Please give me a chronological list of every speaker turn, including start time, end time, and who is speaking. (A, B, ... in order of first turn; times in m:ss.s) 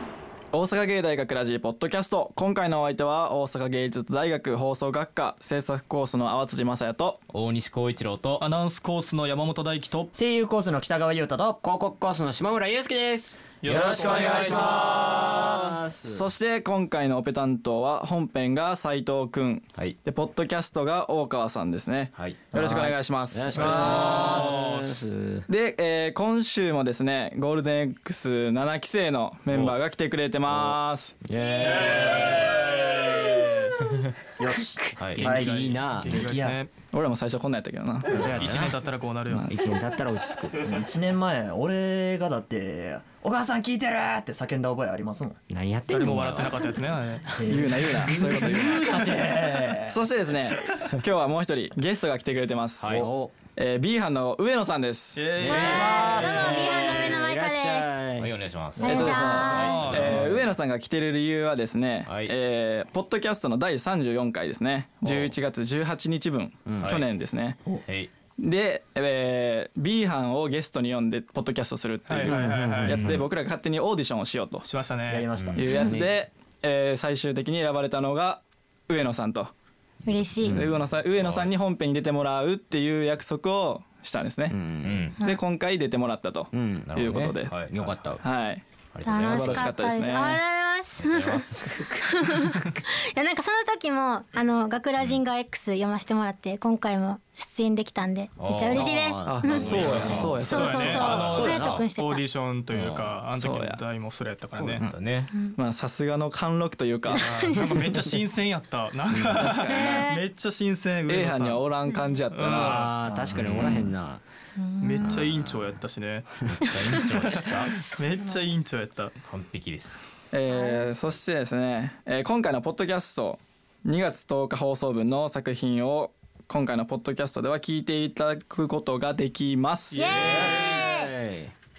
0:00.5-0:07.2 A
0:07.3-0:08.4 B
0:08.4-0:10.1 C
0:10.1-0:11.6 D
0:11.6-0:16.2 E
0:13.6-0:14.8 C
0:13.6-0:14.9 D
0:13.7-0:15.8 B
0:16.0-0:24.5 A
0:22.2-0:22.4 B
0:22.5-0:25.4 E
0:23.6-0:24.7 B
0:25.5-0:31.2 A
0:29.5-0:29.8 B
0:30.5-0:33.5 E
0:31.9-0:32.4 B
0:34.4-0:35.5 D
0:34.8-0:36.5 E
0:35.0-0:35.2 B
0:35.2-0:36.7 C
0:36.1-0:36.5 D
0:36.8-0:38.3 A
0:38.1-0:38.7 E
0:38.3-0:38.7 B
0:38.3-0:39.5 C
0:39.5-0:40.8 E
0:40.6-0:45.4 D
0:45.5-0:46.7 E
0:45.9-0:47.3 C
0:46.0-0:46.5 B
0:47.4-0:49.9 D
0:47.5-0:49.0 A
0:48.0-0:49.7 E
0:49.9-0:53.0 A
0:52.8-0:53.1 B
0:52.8-0:53.3 E
0:53.6-0:55.4 A
0:55.2-0:56.3 C
0:55.4-0:58.3 E
0:55.4-0:58.0 F
0:55.7-0:56.6 D
0:58.1-1:00.5 B
0:58.8-0:59.9 F
0:58.8-1:07.6 A
0:59.5-1:00.3 C
1:02.0-1:02.3 B
1:05.0-1:05.3 B
1:06.6-1:07.0 E
1:06.8-1:07.0 B
1:07.8-1:08.1 B
1:08.4-1:14.7 A
1:12.1-1:13.0 C
1:12.2-1:13.2 E
1:14.6-1:15.3 C
1:15.1-1:15.8 D
1:15.4-1:15.8 B
1:15.6-1:19.5 A
1:20.0-1:20.6 F
1:20.4-1:21.5 B
1:20.4-1:24.6 A
1:24.5-1:25.1 E
1:24.8-1:25.2 B
1:25.2-1:27.5 A
1:26.5-1:27.1 E
1:26.9-1:28.2 B
1:27.7-1:28.2 E
1:28.2-1:28.6 A
1:28.9-1:29.8 B
1:29.0-1:42.2 F
1:29.2-1:30.4 A
1:31.0-1:31.9 B
1:38.4-1:41.9 B
1:38.7-1:40.5 E
1:39.2-1:41.0 A
1:40.5-1:44.8 C
1:42.7-1:43.1 B
1:43.3-1:43.8 A
1:44.5-1:45.3 B
1:45.6-1:47.6 A
1:47.1-1:51.6 C
1:47.3-1:47.7 F
1:49.2-1:50.1 A
1:49.6-1:50.2 F
1:51.1-1:52.9 A
1:52.3-1:52.9 C
1:52.4-1:54.2 E
1:53.3-1:53.9 B
1:54.6-1:55.2 F
1:54.8-1:59.1 C
1:55.0-1:55.5 E
1:56.6-1:57.7 B
1:59.2-2:00.2 B
2:00.3-2:10.1 A
2:00.5-2:00.9 F
2:09.9-2:11.1 F
2:09.9-2:10.6 C
2:10.1-2:11.5 E